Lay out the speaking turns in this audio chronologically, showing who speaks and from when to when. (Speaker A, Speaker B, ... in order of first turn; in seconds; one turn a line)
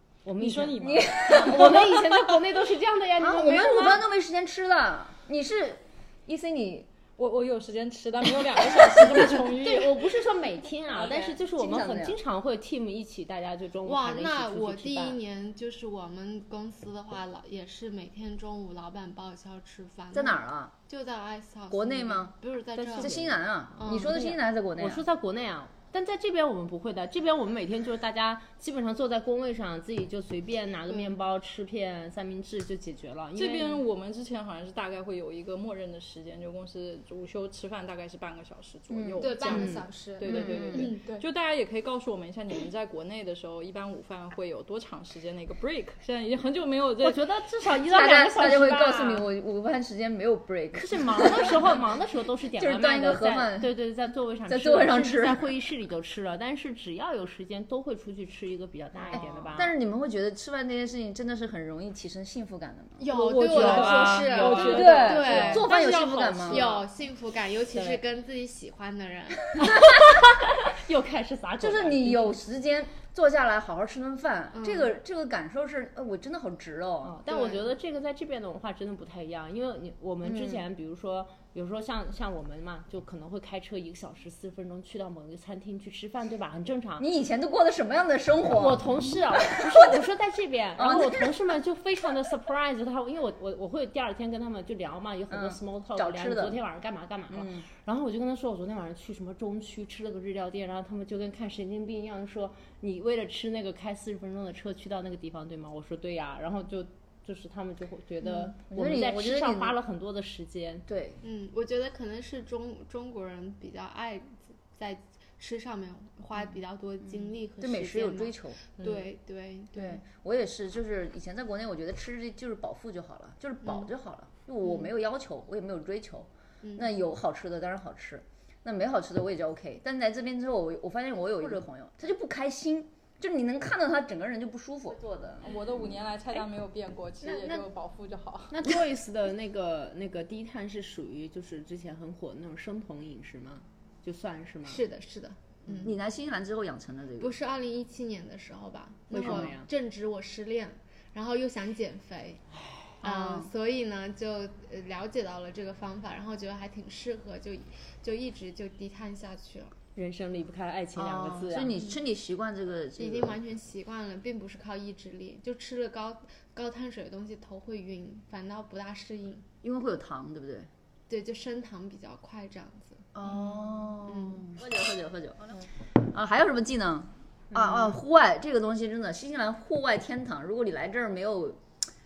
Speaker A: 0.2-4.1
Speaker B: 0.4-1.9
Speaker C: 0.8-2.4
Speaker C: 3.2-6.9
Speaker B: 7.2-10.0
Speaker A: 9.3-15.2
Speaker C: 10.9-12.2
Speaker D: 13.8-24.2
Speaker C: 20.1-20.7
Speaker C: 21.7-22.3
Speaker A: 22.8-33.8
Speaker C: 23.0-25.0
Speaker D: 30.9-31.1
Speaker B: 33.4-47.4
Speaker C: 38.9-39.7
Speaker D: 39.2-41.2
Speaker C: 40.3-40.9
Speaker A: 47.0-49.2
Speaker C: 47.9-51.9
Speaker A: 50.7-59.7
Speaker C: 52.5-53.7
Speaker C: 54.5-55.5
Speaker D: 59.0-59.2
Speaker C: 59.1-63.0
Speaker D: 63.0-69.5
Speaker B: 63.1-65.8
Speaker A: 63.4-66.8
Speaker C: 64.5-66.6
Speaker A: 67.7-68.0
Speaker A: 69.6-72.4
Speaker C: 71.6-77.2
Speaker D: 74.5-74.9
Speaker A: 77.0-87.0
Speaker D: 77.3-77.6
Speaker C: 80.2-80.6
Speaker C: 87.0-88.8
Speaker A: 88.5-110.8
Speaker C: 90.8-91.3
Speaker C: 95.3-96.5
Speaker C: 97.3-97.7
Speaker C: 108.7-109.7
Speaker C: 110.9-111.2
Speaker D: 111.2-120.0
Speaker C: 117.0-118.6
Speaker A: 118.8-119.0
Speaker C: 119.7-135.6
Speaker D: 123.6-123.9
Speaker D: 124.6-124.9
Speaker B: 135.4-138.6
Speaker A: 137.2-137.7
Speaker A: 138.5-144.8
Speaker D: 144.7-145.9
Speaker C: 145.8-147.3
Speaker D: 147.2-152.4
Speaker C: 149.1-149.6
Speaker A: 149.1-149.7
Speaker A: 152.5-152.9
Speaker D: 153.0-159.7
Speaker C: 153.0-153.5
Speaker A: 159.9-161.8
Speaker C: 160.9-163.3
Speaker D: 163.0-169.5
Speaker C: 169.6-170.7
Speaker D: 171.1-173.1
Speaker C: 173.1-181.6
Speaker D: 174.0-174.4
Speaker A: 177.5-178.0